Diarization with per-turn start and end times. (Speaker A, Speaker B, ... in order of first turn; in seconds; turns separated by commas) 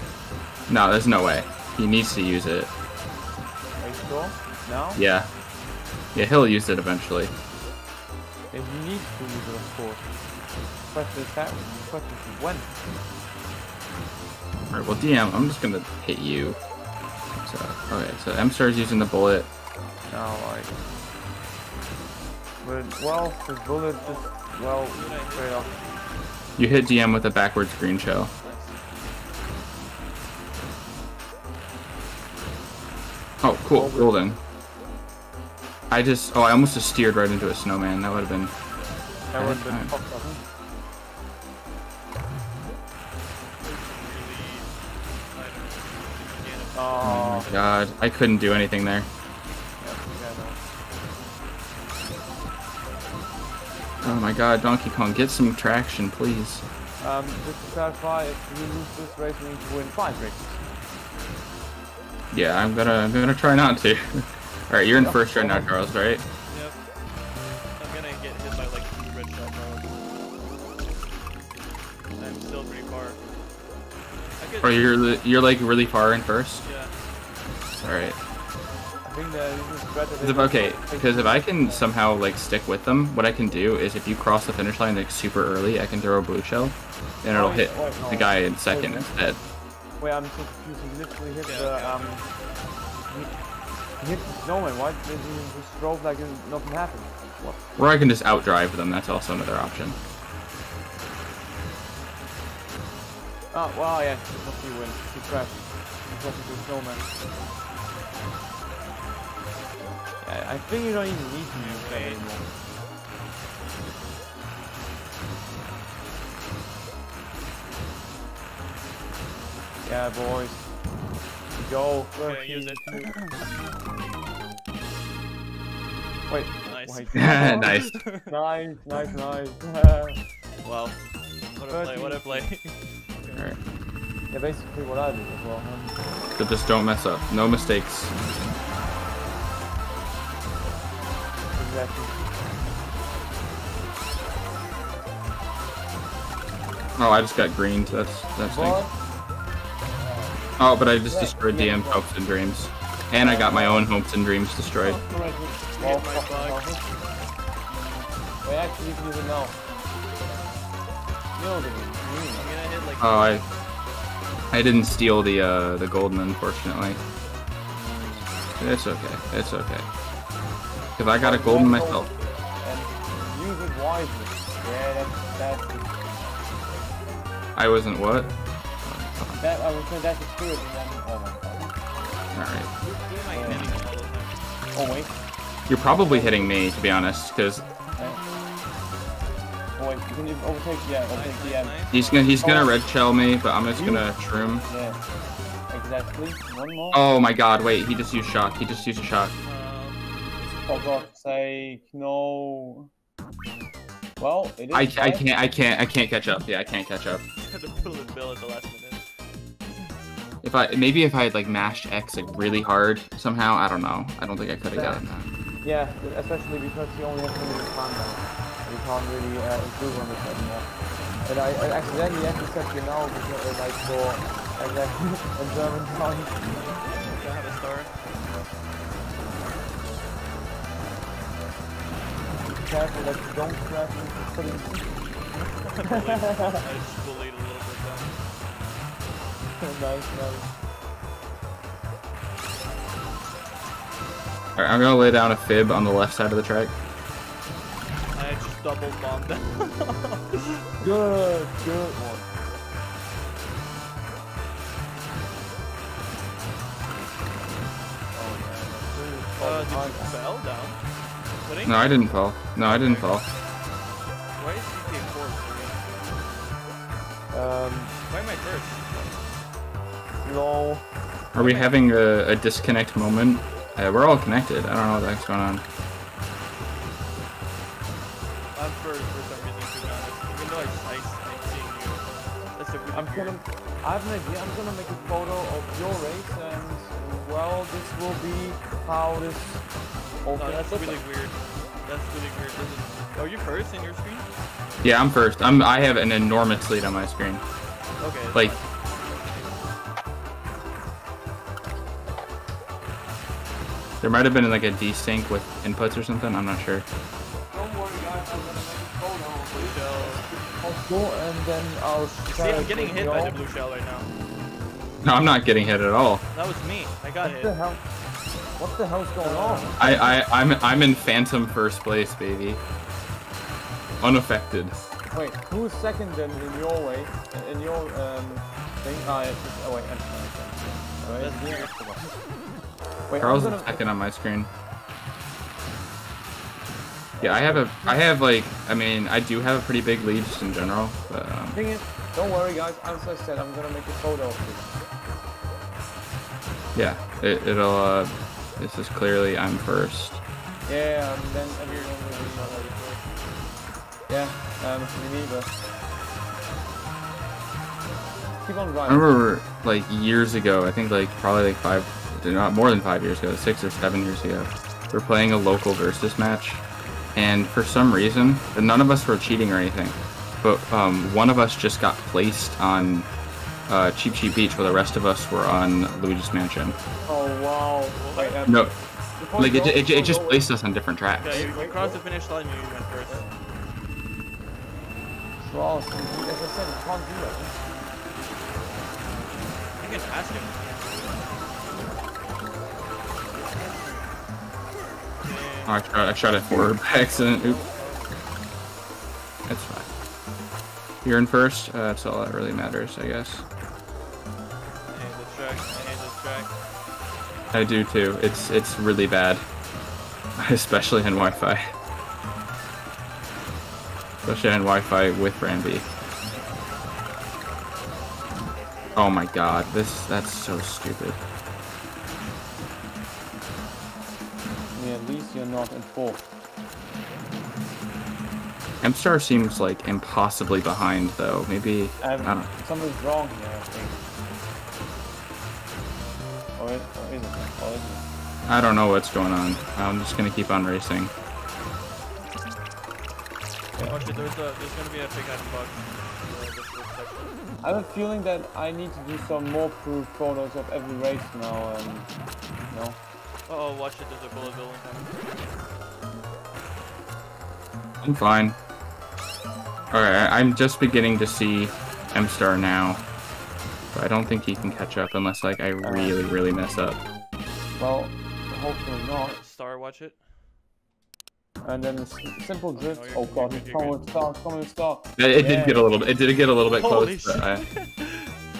Speaker A: 0.7-2.7, Speaker B: 3.8-5.0, Speaker A: 5.0-5.3, Speaker A: 6.1-7.3, Speaker B: 8.5-10.1, Speaker B: 10.8-12.7, Speaker A: 14.7-16.6, Speaker A: 17.3-19.5, Speaker B: 20.1-20.8, Speaker B: 22.6-25.7, Speaker C: 24.0-25.8, Speaker A: 26.6-28.3, Speaker C: 28.4-28.8, Speaker A: 33.4-34.4, Speaker B: 33.7-34.3, Speaker A: 35.9-38.5, Speaker B: 39.3-40.4, Speaker A: 39.4-39.9, Speaker C: 43.6-44.7, Speaker C: 45.3-47.8, Speaker B: 46.7-47.5, Speaker A: 47.0-49.1, Speaker B: 49.8-50.6, Speaker A: 54.0-56.6, Speaker B: 57.0-60.6, Speaker A: 62.3-66.2, Speaker B: 64.9-65.7, Speaker C: 66.5-66.8, Speaker C: 67.8-69.9, Speaker C: 72.2-73.2, Speaker C: 74.4-75.3, Speaker A: 74.6-76.6, Speaker C: 76.6-76.9, Speaker A: 77.8-78.2, Speaker B: 79.0-81.9, Speaker A: 80.2-89.4, Speaker B: 87.3-89.1, Speaker B: 90.0-92.2, Speaker C: 91.4-92.3, Speaker B: 94.0-97.6, Speaker A: 97.8-100.0, Speaker B: 103.5-107.1, Speaker B: 110.2-112.4, Speaker C: 111.6-112.3, Speaker B: 119.8-120.7, Speaker B: 121.5-123.1, Speaker C: 122.2-123.4, Speaker B: 126.3-130.2, Speaker C: 126.7-128.3, Speaker A: 127.1-128.0, Speaker C: 130.6-131.0, Speaker C: 131.6-133.5, Speaker B: 131.7-132.5, Speaker B: 134.3-136.0, Speaker A: 136.4-138.1, Speaker B: 141.5-142.3, Speaker A: 146.9-148.8, Speaker B: 148.5-148.9, Speaker A: 150.6-155.0, Speaker B: 151.1-152.1, Speaker B: 153.2-153.9, Speaker C: 154.8-156.6, Speaker B: 155.1-156.8, Speaker B: 158.4-159.6, Speaker B: 161.3-162.5, Speaker C: 162.3-163.4, Speaker A: 163.0-163.4, Speaker A: 164.5-167.0, Speaker B: 167.7-168.4, Speaker A: 168.6-169.9, Speaker A: 170.9-172.1, Speaker B: 171.2-176.0, Speaker A: 177.6-179.4, Speaker B: 179.4-181.7, Speaker A: 182.3-182.7, Speaker C: 182.8-184.4, Speaker B: 183.3-183.8, Speaker B: 184.7-185.2, Speaker A: 185.7-187.6, Speaker B: 185.8-186.5, Speaker B: 189.8-192.8, Speaker C: 191.1-192.5, Speaker A: 191.9-194.7, Speaker B: 193.7-194.1, Speaker B: 194.7-195.0, Speaker B: 195.7-197.0, Speaker A: 196.9-199.3, Speaker C: 199.4-201.1, Speaker B: 200.7-202.9, Speaker B: 204.2-205.2, Speaker A: 204.7-207.2, Speaker C: 207.4-209.0, Speaker A: 210.4-215.3, Speaker B: 214.7-215.0, Speaker B: 215.6-220.7, Speaker B: 221.2-226.4, Speaker C: 226.7-227.9, Speaker B: 232.5-235.0, Speaker C: 235.4-238.1, Speaker B: 235.9-236.6, Speaker B: 239.6-240.5, Speaker A: 244.5-246.7, Speaker C: 248.1-250.6, Speaker B: 250.8-252.3, Speaker B: 258.1-260.1, Speaker C: 259.4-260.8, Speaker C: 261.4-263.1, Speaker A: 261.6-263.2, Speaker C: 264.4-265.9, Speaker B: 267.3-268.0, Speaker C: 268.1-268.9, Speaker B: 270.2-270.8, Speaker C: 271.3-271.8, Speaker A: 271.3-275.6, Speaker C: 278.5-282.0, Speaker C: 282.6-283.4, Speaker B: 282.9-289.6, Speaker B: 290.2-291.0, Speaker C: 290.4-294.3, Speaker A: 294.8-297.4, Speaker C: 298.0-298.7, Speaker A: 304.0-306.9, Speaker B: 307.5-313.4, Speaker C: 309.5-310.2, Speaker C: 312.3-314.1, Speaker A: 315.0-316.2, Speaker C: 316.3-317.5, Speaker B: 317.2-317.8, Speaker B: 318.6-320.1, Speaker C: 319.2-320.1, Speaker A: 319.7-322.6, Speaker A: 324.0-324.8, Speaker B: 325.1-331.7, Speaker C: 331.1-332.1, Speaker B: 333.1-333.8, Speaker A: 333.2-334.5, Speaker B: 337.2-338.1, Speaker A: 337.2-341.6, Speaker B: 341.5-344.7, Speaker A: 346.7-350.2, Speaker B: 350.6-352.7, Speaker C: 351.6-353.1, Speaker B: 354.1-355.5, Speaker B: 358.4-359.1, Speaker A: 358.9-366.6, Speaker A: 367.1-373.1, Speaker A: 373.7-376.8, Speaker B: 377.1-380.5, Speaker C: 377.9-378.4, Speaker A: 378.4-378.7, Speaker A: 379.3-381.5, Speaker C: 381.2-383.3, Speaker B: 381.2-382.0, Speaker B: 385.4-387.5, Speaker C: 389.8-390.6, Speaker C: 395.2-396.1, Speaker A: 395.6-397.6, Speaker C: 396.9-398.2, Speaker A: 399.5-399.9, Speaker A: 401.0-403.4, Speaker C: 404.9-406.5, Speaker A: 407.5-409.4, Speaker A: 410.4-411.6, Speaker A: 414.2-415.9, Speaker A: 418.9-421.2, Speaker B: 424.7-426.3, Speaker A: 428.8-432.5, Speaker B: 432.0-434.0, Speaker B: 436.6-438.0, Speaker A: 438.5-441.1, Speaker C: 443.8-447.4, Speaker B: 447.6-452.1, Speaker B: 452.7-453.0, Speaker C: 453.5-455.5, Speaker A: 458.0-458.6, Speaker A: 459.9-463.0, Speaker A: 463.9-467.0, Speaker B: 465.8-466.1, Speaker B: 467.8-469.4, Speaker C: 469.2-470.2, Speaker B: 471.6-475.9, Speaker C: 472.7-474.0, Speaker A: 475.2-477.6, Speaker C: 476.6-478.3